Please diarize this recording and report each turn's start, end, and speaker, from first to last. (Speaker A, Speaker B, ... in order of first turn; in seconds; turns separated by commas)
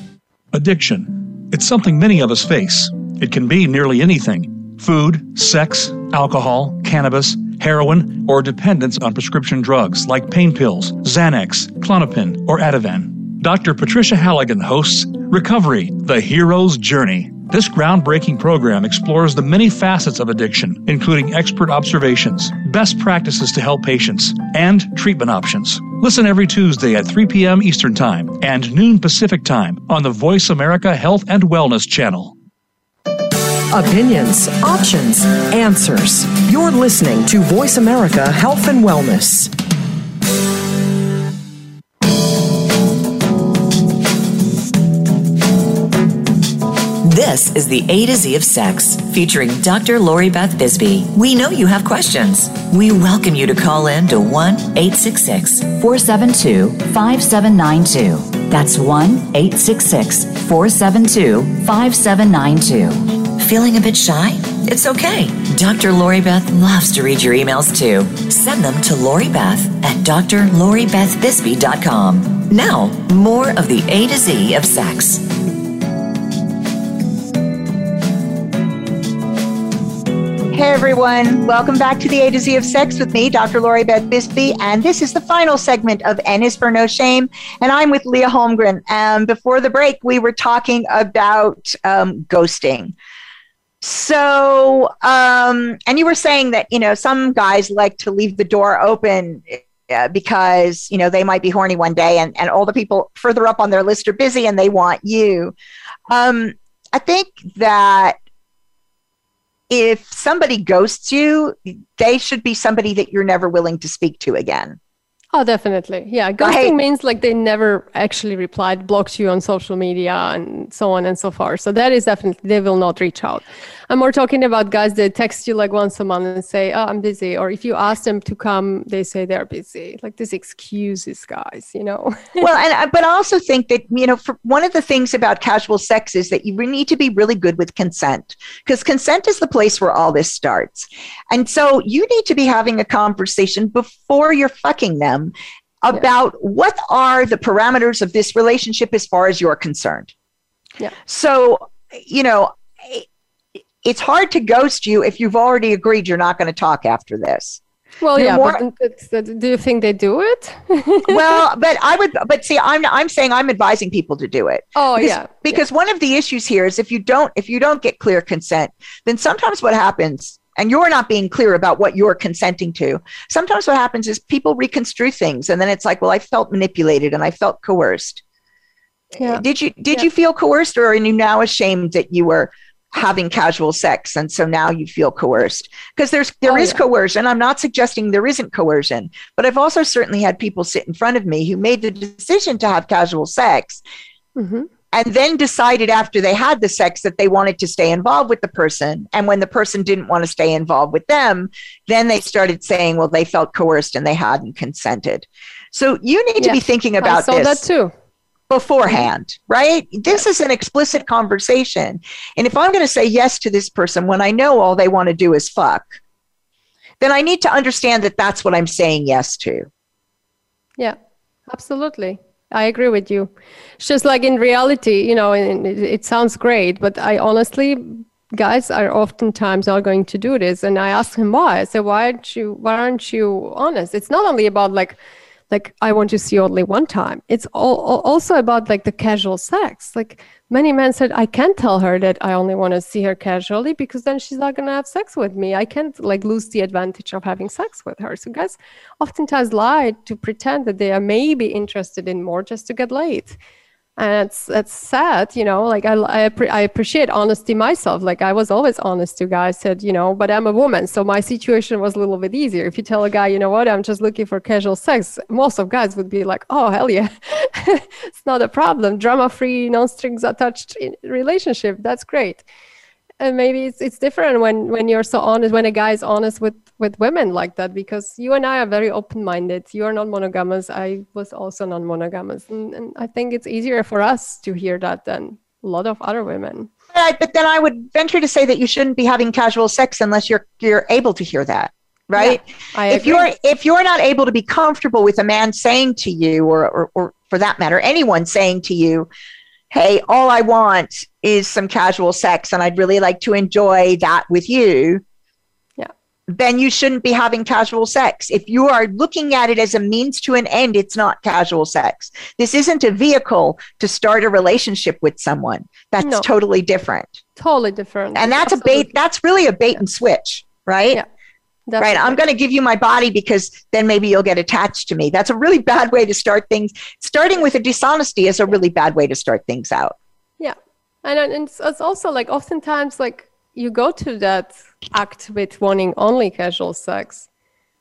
Speaker A: 0.5-32.4, Speaker B: 33.7-39.5, Speaker C: 47.0-75.3, Speaker D: 80.5-92.9, Speaker D: 93.8-105.5, Speaker D: 106.1-108.2, Speaker D: 109.7-114.8, Speaker E: 115.3-132.4, Speaker D: 116.4-116.8, Speaker D: 132.4-150.1, Speaker D: 151.1-153.1, Speaker D: 153.8-157.6, Speaker E: 158.0-161.4, Speaker D: 158.2-158.6, Speaker D: 161.1-178.2, Speaker E: 164.8-165.6, Speaker E: 179.2-180.1, Speaker D: 179.2-193.8, Speaker E: 186.4-186.8, Speaker E: 194.4-194.7, Speaker D: 194.9-207.6, Speaker E: 206.4-207.9, Speaker D: 208.5-215.9, Speaker D: 217.0-219.7, Speaker E: 221.5-235.0, Speaker E: 235.5-253.4, Speaker E: 254.0-272.4, Speaker E: 273.2-286.7, Speaker D: 286.9-299.1, Speaker E: 292.1-293.3, Speaker D: 299.7-305.0, Speaker D: 306.3-317.2, Speaker E: 316.0-316.3, Speaker E: 317.4-318.9, Speaker D: 318.1-321.0, Speaker E: 321.7-322.2, Speaker D: 321.8-330.0, Speaker E: 330.4-337.3